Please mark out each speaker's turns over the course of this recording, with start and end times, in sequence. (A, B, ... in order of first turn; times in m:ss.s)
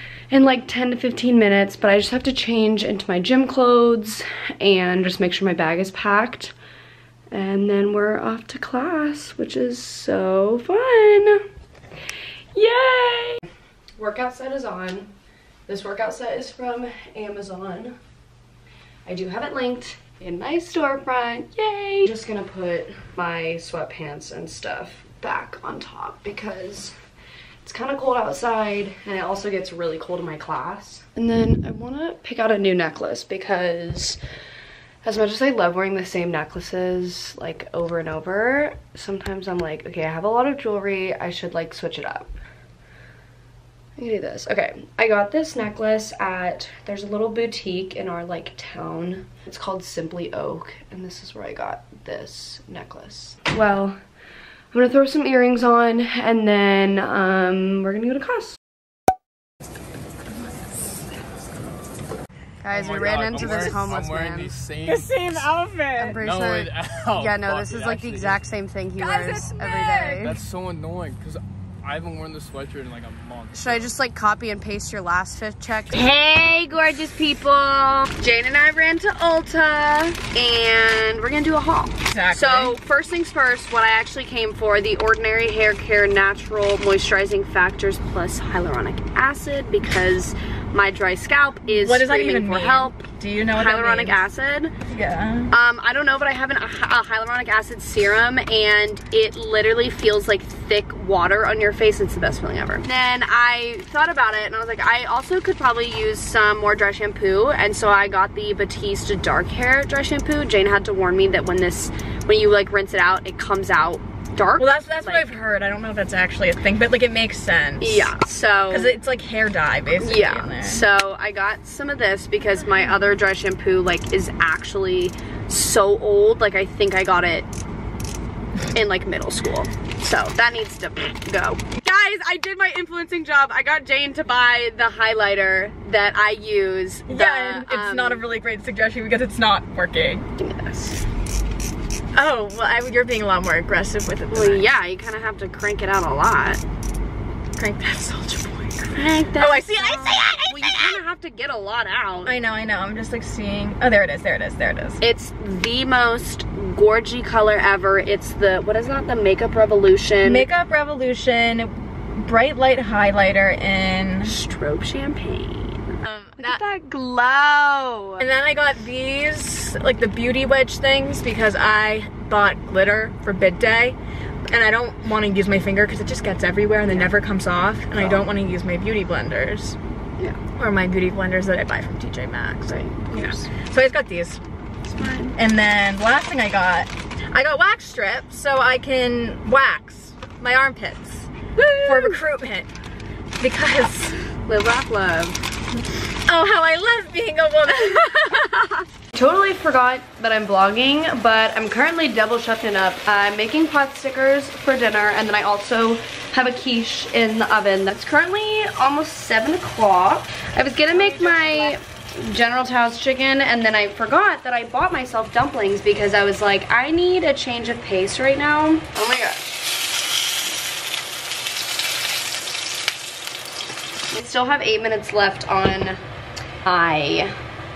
0:00.3-0:06.5 A
0:07.3-0:11.4 A
0:12.5-0:13.4 A
0:14.0-0:15.1 A
0:15.7-0:18.0 A
0:19.1-0:27.0 A
0:27.6-0:34.2 A
0:35.0-0:42.3 A
0:44.0-0:54.0 A
0:54.7-0:58.6 A
1:02.6-1:04.6 A
1:02.7-1:05.5 B
1:04.9-1:06.2 C
1:06.0-1:10.4 A
1:06.1-1:08.4 B
1:09.0-1:10.2 C
1:10.2-1:13.9 B
1:13.5-1:34.7 A
1:22.1-1:22.7 C
1:31.7-1:34.2 C
1:34.9-1:35.5 C
1:35.5-1:55.3 A
1:54.6-1:58.1 C
1:57.8-1:59.0 A
1:58.7-2:00.8 C
2:00.0-2:07.5 A
2:08.7-2:18.2 A
2:17.1-2:20.3 C
2:20.4-2:21.0 A
2:22.2-2:24.6 C
2:24.3-2:26.6 A
2:27.6-2:31.0 C
2:28.9-2:32.4 A
2:32.3-2:35.0 C
2:35.0-2:40.5 A
2:40.2-2:44.4 C
2:44.2-2:48.3 A
2:46.0-2:46.6 C
2:48.2-2:54.0 C
2:54.5-2:59.8 C
2:56.9-2:57.1 A
2:58.0-2:58.3 A
3:00.6-3:04.4 C
3:02.7-3:03.5 A
3:04.8-3:05.4 A
3:05.4-3:11.3 C
3:11.6-3:12.2 A
3:11.8-3:12.7 C
3:13.4-3:14.2 C
3:14.4-3:15.5 A
3:16.3-3:18.7 C
3:19.1-3:39.5 A
3:31.0-3:31.6 C
3:44.1-3:46.0 A
3:46.6-3:47.3 A